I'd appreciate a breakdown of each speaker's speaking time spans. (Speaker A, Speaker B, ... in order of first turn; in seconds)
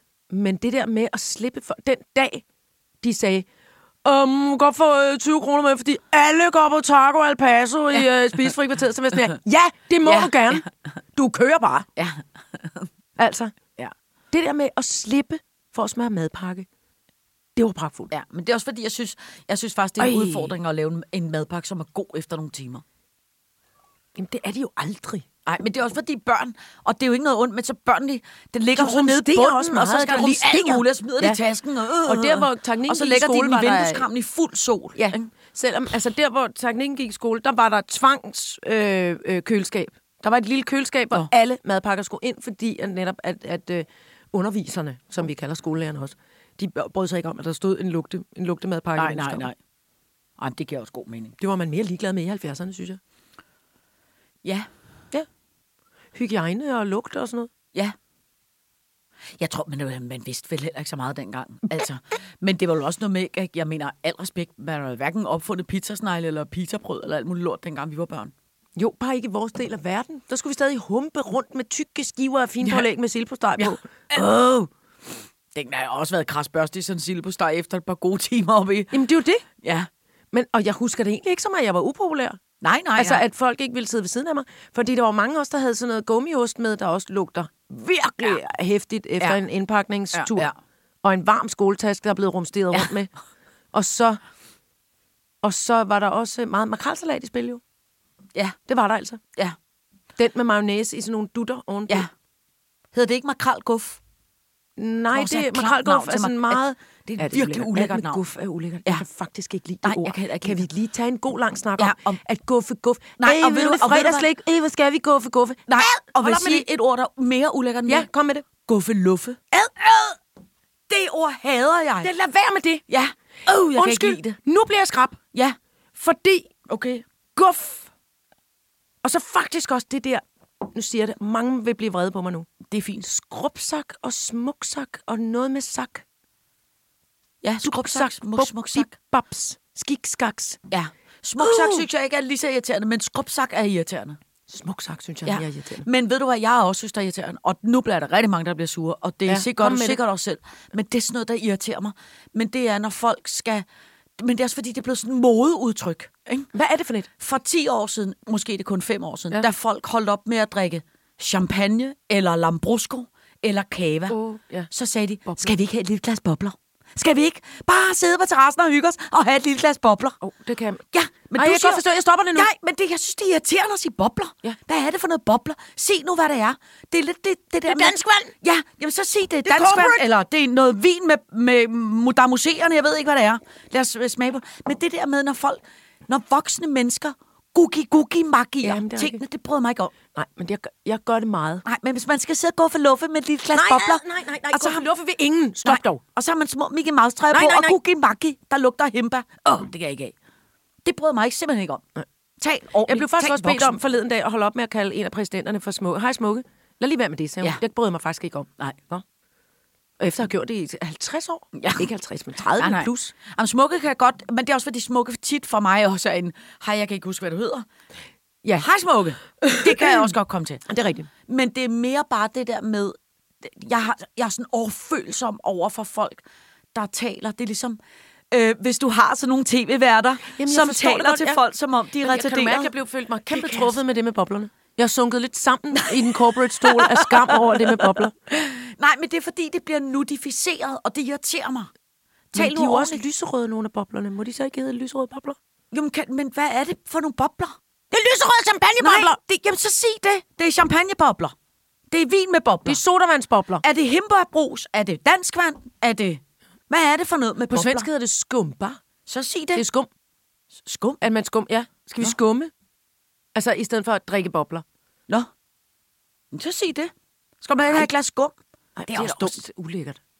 Speaker A: 0.3-2.4, 3.0-3.5, 4.0-10.6, 11.1-11.9, 13.2-13.5, 14.3-16.7, 17.6-18.1, 20.0-20.5, 24.1-25.2, 28.7-31.4, 32.0-34.1, 35.0-49.5, 51.4-53.0, 56.1-57.5, 68.8-74.5, 78.9-79.4, 80.3-82.4, 83.0-90.5, 91.0-93.1, 93.7-94.2, 95.4-97.6, 98.7-99.2, 100.2-102.0, 104.8-116.7, 117.9-118.5, 119.5-119.9, 122.0-122.8, 123.5-125.2, 126.0-126.5, 127.3-127.9, 129.0-132.5, 133.0-136.0, 137.6-140.6, 141.4-141.8, 144.5-145.9, 149.2-150.0, 156.5-157.1, 164.1-164.7, 165.3-165.5, 170.2-170.8, 171.3-172.5, 177.7-178.3, 179.4-180.1, 188.6-189.2, 190.1-191.6, 193.5-196.0, 197.3-197.8, 202.8-209.0, 210.0-213.1, 219.4-220.1, 220.7-221.1, 230.3-231.4, 232.0-238.1, 242.3-245.4, 247.9-249.2, 252.7-253.6, 257.5-258.8, 259.5-259.9, 261.0-262.5, 263.3-264.6, 268.8-270.0
Speaker B: 10.0-10.7, 11.9-12.9, 18.1-22.8, 25.4-35.3, 49.0-49.6, 50.4-51.4, 54.4-54.7, 59.4-68.3, 73.6-74.7, 75.5-79.0, 79.6-79.9, 82.6-83.2, 90.1-90.5, 102.9-104.0, 105.1-108.2, 109.8-110.6, 111.8-112.2, 113.2-114.3, 115.7-118.1, 118.6-120.1, 120.9-122.1, 122.9-124.3, 126.7-127.0, 132.7-133.1, 137.4-138.9, 140.7-144.2, 145.2-153.6, 154.2-156.5, 157.2-164.2, 164.7-170.2, 170.9-189.9, 191.6-194.8, 195.6-200.1, 200.8-201.8, 202.4-203.8, 211.5-211.9, 212.5-217.7, 218.6-220.6, 221.3-226.2, 226.7-227.8, 228.3-232.7, 233.3-233.8, 235.7-241.7, 242.3-243.0, 245.7-247.6, 248.8-251.3, 251.9-252.8, 253.6-257.9, 259.1-259.6, 260.6-261.0, 266.3-268.3, 268.9-269.4